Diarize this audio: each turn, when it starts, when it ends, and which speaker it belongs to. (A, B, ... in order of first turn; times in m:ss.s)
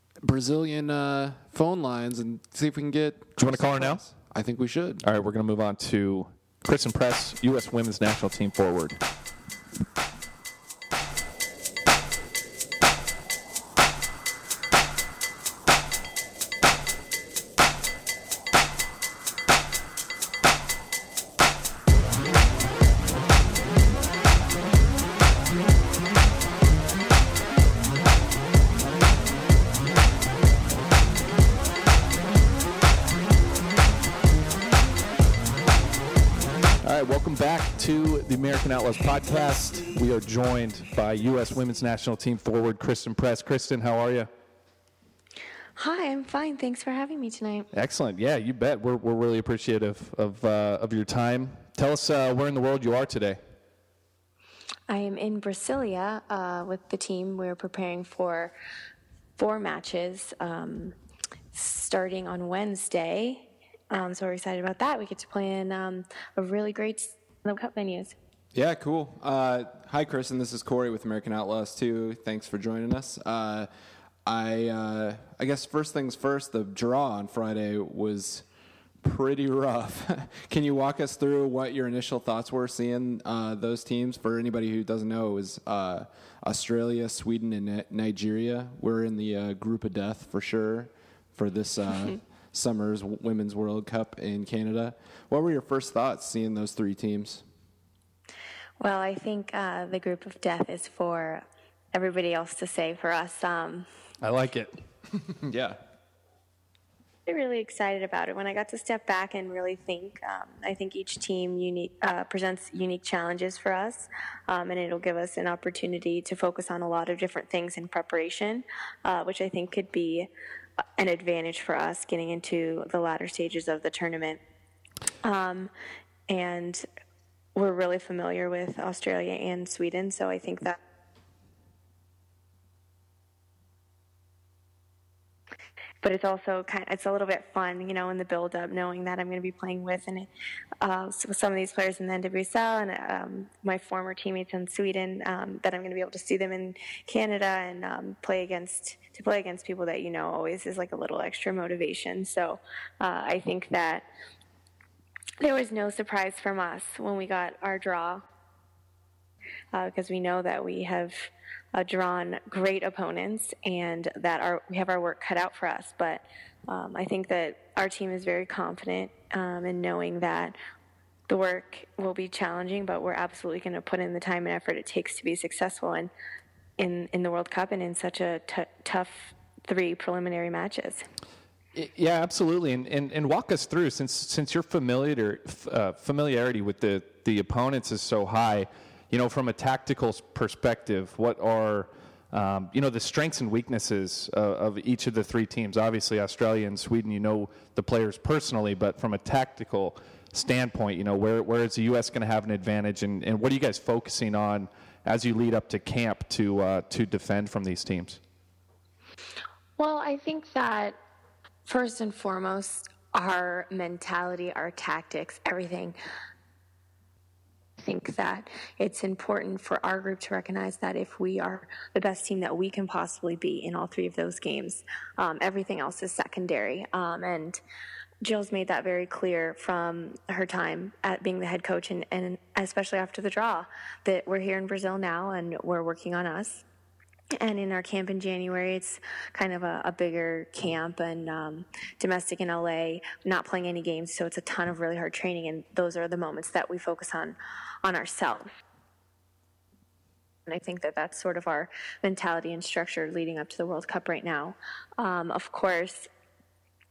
0:00.2-0:05.0 A
0:03.4-0:04.0 B
0:05.0-0:09.0 B
0:36.8-0:44.3 B
0:45.8-0:47.7 C
0:47.7-0:53.4 B
0:54.9-0:58.5 C
0:59.4-1:00.9 C
1:01.5-1:08.1 C
1:08.5-1:13.7 A
1:14.2-1:18.4 A
1:19.0-1:37.4 A
1:38.8-1:43.9 C
1:44.2-1:44.7 B
1:45.3-1:45.8 A
1:47.2-2:00.3 C
2:01.0-2:04.4 C
2:05.2-2:05.7 C
2:06.3-2:06.8 C
2:07.5-2:10.8 C
2:16.0-2:20.3 C
2:20.8-2:34.1 C
2:35.4-2:38.2 C
2:39.7-2:50.6 C
2:51.3-2:56.1 C
2:56.8-3:01.0 C
3:01.7-3:28.2 B
3:29.8-3:31.0 C
3:31.6-3:36.0 C
3:37.8-3:47.6 C
3:48.2-3:56.6 C
3:57.4-4:08.5 C
4:10.4-4:16.1 C